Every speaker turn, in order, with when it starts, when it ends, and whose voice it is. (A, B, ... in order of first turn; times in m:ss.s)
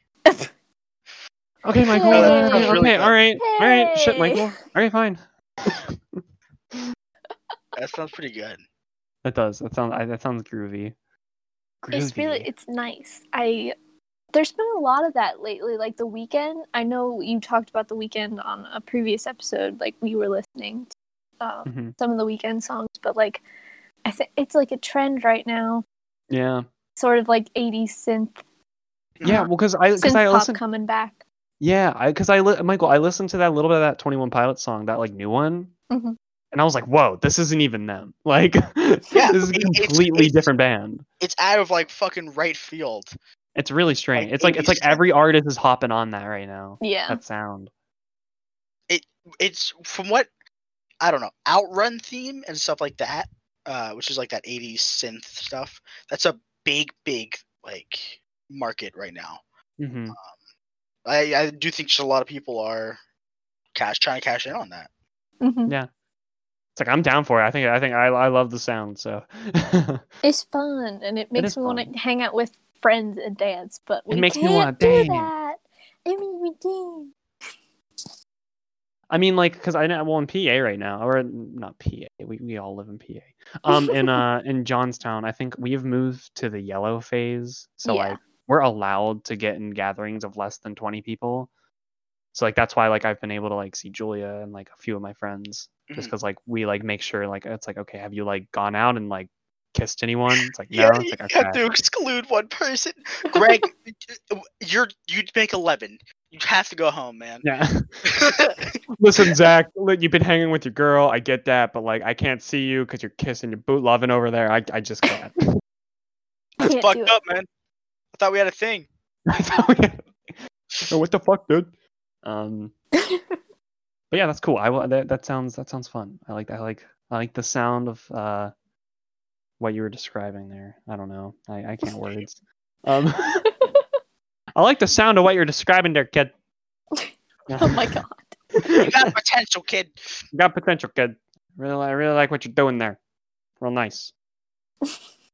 0:01.6-0:06.2 A
0:01.9-0:02.8 B
0:02.1-0:03.2 C
0:03.4-0:04.4 B
0:07.8-0:08.6 C
0:09.2-0:11.0 A
0:11.8-0:12.5 A
0:11.9-0:13.8 B
0:14.3-0:20.9 B
0:21.4-0:23.4 B
0:21.7-0:21.9 A
0:24.0-0:25.8 B
0:26.3-0:26.6 A
0:27.0-0:28.4 B
0:29.2-0:29.5 C
0:29.2-0:30.6 A
0:29.3-0:31.2 B
0:31.6-0:35.7 A
0:35.9-0:36.2 B
0:36.5-0:41.0 A
0:39.1-0:40.5 C
0:41.2-0:43.1 C
0:43.6-0:47.7 A
0:44.2-0:45.0 C
0:46.8-0:47.2 B
0:48.9-0:50.3 C
0:51.0-0:59.4 C
0:59.8-1:00.2 A
1:01.0-1:03.0 C
1:03.8-1:04.9 C
1:05.4-1:05.7 B
1:06.8-1:10.0 A
1:10.2-1:17.1 B
1:11.4-1:11.9 A
1:14.1-1:15.3 A
1:19.1-1:31.5 A
1:23.7-1:24.2 B
1:27.8-1:28.2 B
1:32.3-1:41.6 A
1:35.9-1:36.1 C
1:40.7-1:47.5 C
1:47.4-1:48.1 A
1:48.0-1:49.3 C
1:49.0-1:55.4 A
1:56.6-1:57.2 B
1:56.7-1:57.5 C
1:58.1-1:58.9 C
1:59.3-2:00.2 A
2:00.9-2:01.7 A
2:02.2-2:02.7 A
2:03.0-2:03.2 B
2:04.1-2:08.5 A
2:09.6-2:13.5 A
2:13.4-2:13.8 B
2:14.6-2:16.3 A
2:16.9-2:18.4 B
2:17.5-2:18.0 A
2:18.6-2:18.9 A
2:18.7-2:20.0 C
2:20.3-2:23.0 A
2:23.6-2:24.1 A